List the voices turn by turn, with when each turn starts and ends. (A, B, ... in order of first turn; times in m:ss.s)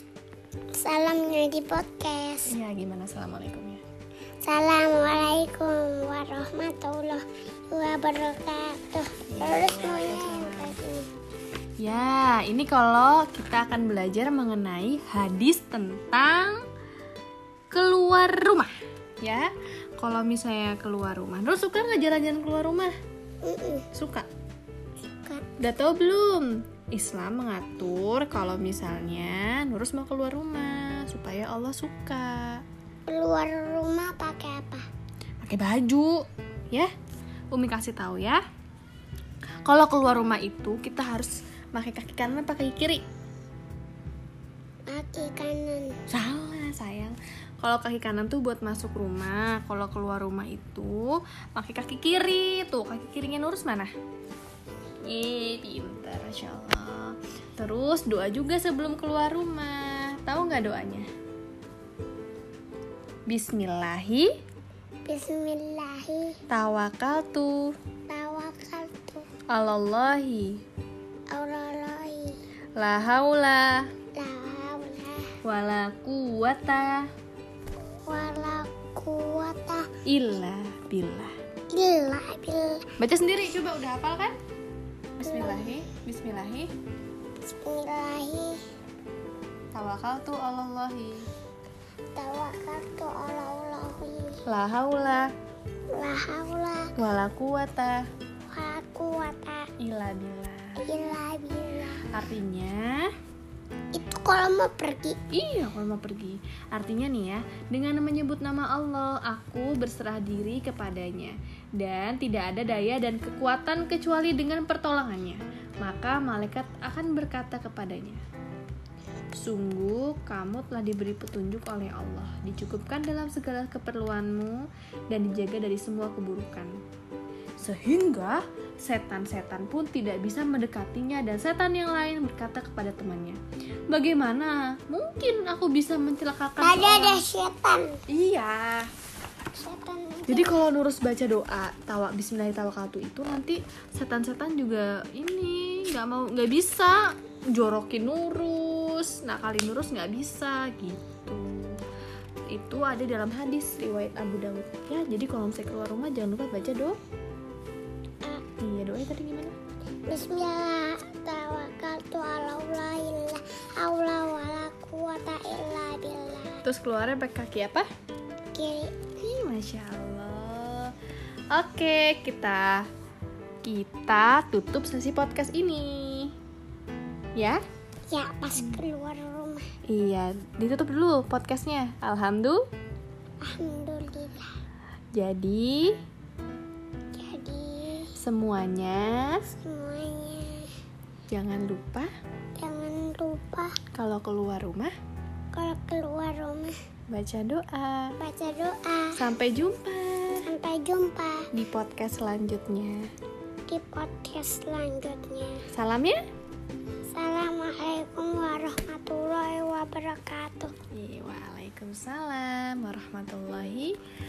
0:00.7-0:02.5 A
0:02.5-0:03.8 B
0:04.4-0:11.1 A
0:09.3-0:10.8 B
0:11.8-0:16.6 B
0:17.7-0:22.9 B
0:23.4-0:23.9 A
0:23.9-0:24.3 B
0:25.1-0:25.4 A
0:25.6-0:32.6 B
0:33.1-0:34.8 A
0:35.4-0:36.9 B
0:37.5-0:38.4 B
0:39.6-0:43.0 B
0:44.9-0:46.0 A
0:46.1-0:53.9 B
0:55.0-1:01.1 B
1:03.3-1:04.3 B
1:05.0-1:06.4 A
1:06.5-1:07.7 B
1:08.1-1:09.3 A
1:09.5-1:10.6 B
1:11.3-1:12.4 A
1:12.8-1:13.9 B
1:14.1-1:15.3 A
1:15.4-1:17.1 B
1:18.0-1:19.9 A
1:20.0-1:21.3 B
1:21.7-1:22.9 A
1:23.0-1:24.4 B
1:25.2-1:26.7 B
1:25.2-1:25.8 A
1:27.5-1:28.6 A
1:29.7-1:31.3 B
1:32.1-1:34.4 A
1:34.4-1:35.3 B
1:35.9-1:36.9 A
1:37.0-1:38.1 B
1:38.5-1:39.7 A
1:39.8-1:40.8 B
1:40.8-1:42.0 A
1:42.1-1:43.1 B
1:43.9-1:45.2 A
1:45.3-1:58.2 B
1:59.3-2:06.8 B
2:07.6-2:17.2 B
2:16.6-2:18.0 A
2:18.1-2:18.9 B
2:19.6-2:20.7 A
2:20.3-2:31.8 B
2:32.5-2:37.0 B
2:38.6-2:39.6 B
2:40.1-2:46.6 A
2:46.6-2:47.9 B
2:48.5-2:49.0 A
2:49.2-2:50.9 B
2:51.5-2:52.9 B
2:53.6-2:56.3 B
2:57.4-2:57.6 B
2:58.1-2:59.7 A
2:58.6-2:58.8 B
2:59.8-3:02.6 B
3:03.4-3:04.5 A
3:05.1-3:06.0 B
3:07.1-3:08.1 A
3:08.2-3:09.5 B
3:09.5-3:10.7 A
3:11.3-3:12.1 B
3:12.6-3:13.7 A
3:13.9-3:14.9 B
3:15.5-3:16.7 A
3:17.1-3:18.1 B
3:18.2-3:19.2 A
3:19.2-3:20.5 B
3:20.4-3:21.5 A
3:21.5-3:23.1 B
3:23.7-3:25.6 A
3:25.7-3:26.2 B
3:27.1-3:30.7 A
3:30.9-3:34.0 B